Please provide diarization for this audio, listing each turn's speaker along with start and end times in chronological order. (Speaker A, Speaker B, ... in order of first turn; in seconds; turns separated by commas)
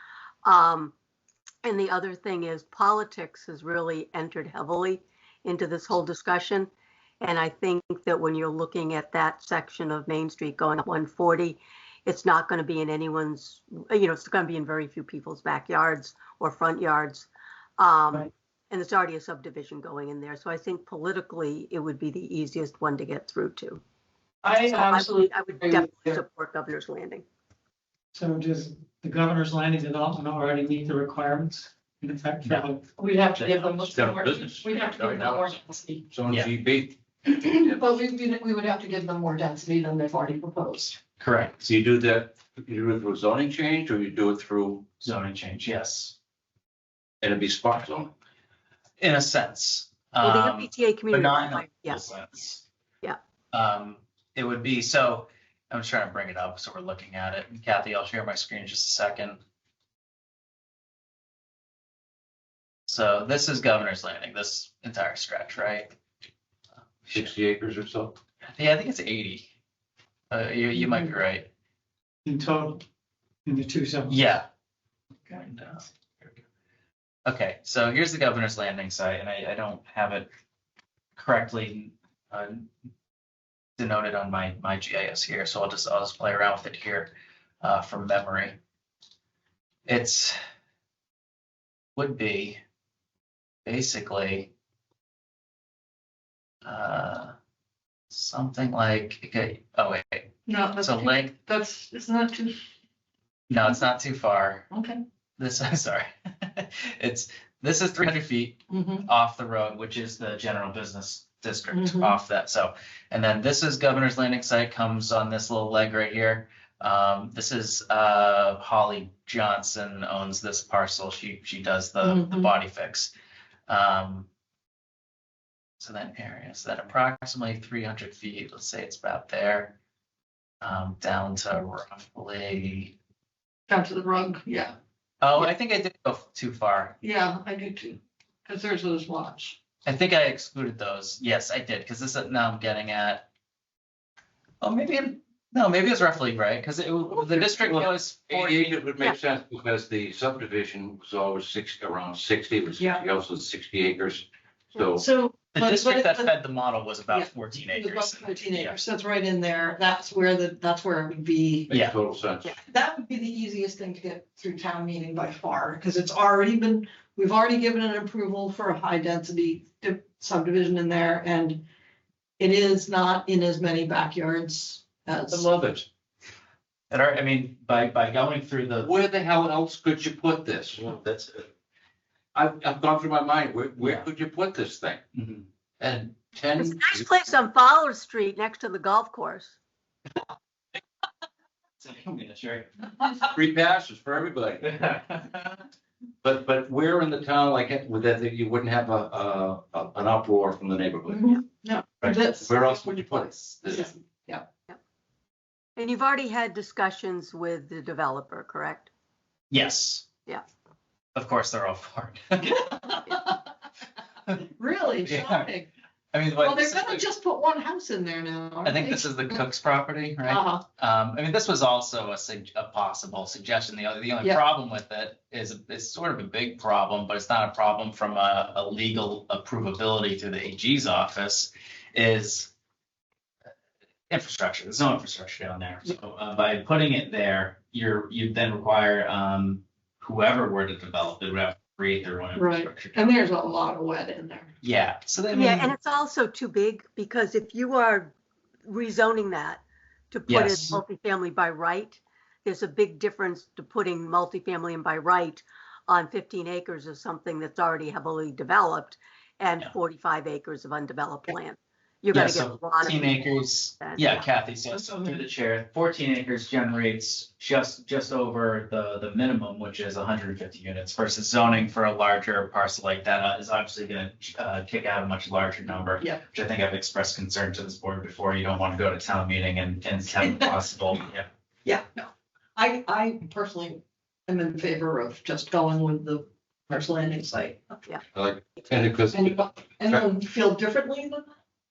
Speaker A: 0.5-0.9, Speaker A: 1.6-6.7, Speaker A: 7.2-23.8, Speaker B: 24.4-26.2, Speaker A: 24.7-27.2, Speaker C: 28.1-32.8, Speaker B: 33.0-36.0, Speaker D: 33.4-33.7, Speaker E: 33.9-35.6, Speaker E: 36.1-37.0, Speaker B: 37.3-41.0, Speaker D: 41.2-41.6, Speaker E: 41.6-44.8, Speaker D: 45.0-46.1, Speaker E: 47.2-48.1, Speaker D: 49.0-52.6, Speaker A: 50.2-52.0, Speaker D: 53.5-59.4, Speaker D: 62.9-65.9, Speaker D: 67.0-67.3, Speaker E: 67.1-68.2, Speaker D: 68.4-69.5, Speaker D: 70.3-71.5, Speaker C: 72.2-72.8, Speaker C: 73.5-74.2, Speaker D: 74.1-74.5, Speaker D: 75.3-76.4, Speaker D: 77.2-80.3, Speaker D: 81.1-82.7, Speaker D: 83.8-88.6, Speaker D: 89.8-90.3, Speaker D: 92.0-92.6, Speaker D: 93.6-94.5, Speaker D: 96.6-97.3, Speaker D: 98.1-101.3, Speaker B: 100.5-102.5, Speaker D: 103.5-104.7, Speaker B: 104.7-105.0, Speaker D: 105.4-123.1, Speaker B: 108.7-109.1, Speaker B: 111.7-112.2, Speaker B: 122.0-122.5, Speaker D: 123.7-124.3, Speaker D: 125.8-129.8, Speaker D: 130.6-132.9, Speaker B: 133.7-134.7, Speaker D: 135.2-136.9, Speaker B: 137.0-139.6, Speaker D: 139.8-143.3, Speaker D: 144.6-148.8, Speaker E: 147.3-155.0, Speaker B: 152.8-153.1, Speaker B: 154.8-156.3, Speaker D: 155.5-158.8, Speaker B: 157.1-161.7, Speaker E: 161.7-162.5, Speaker B: 162.6-171.6, Speaker B: 172.4-175.5, Speaker E: 175.3-175.8, Speaker D: 176.9-178.9, Speaker E: 178.8-181.0, Speaker D: 180.8-181.5, Speaker E: 182.3-185.0, Speaker D: 183.8-184.1, Speaker D: 185.1-185.4, Speaker E: 185.8-187.1, Speaker A: 186.6-189.6, Speaker D: 191.8-193.3, Speaker E: 193.3-194.8, Speaker D: 194.6-195.6, Speaker E: 196.2-201.4, Speaker B: 201.1-204.5, Speaker E: 202.4-203.9, Speaker A: 205.8-208.9, Speaker D: 209.5-210.1, Speaker D: 211.1-213.0, Speaker B: 212.9-213.3, Speaker B: 214.6-215.7, Speaker D: 215.0-215.5, Speaker D: 216.1-217.0, Speaker B: 216.4-219.4, Speaker D: 218.6-232.5, Speaker B: 220.3-220.6, Speaker D: 234.1-243.1, Speaker B: 242.3-244.5, Speaker D: 244.6-245.7, Speaker A: 245.3-248.1, Speaker A: 248.6-264.2, Speaker D: 250.3-250.8, Speaker D: 262.1-281.3, Speaker B: 280.2-280.5, Speaker B: 281.6-287.8, Speaker E: 288.1-290.0, Speaker B: 289.1-291.3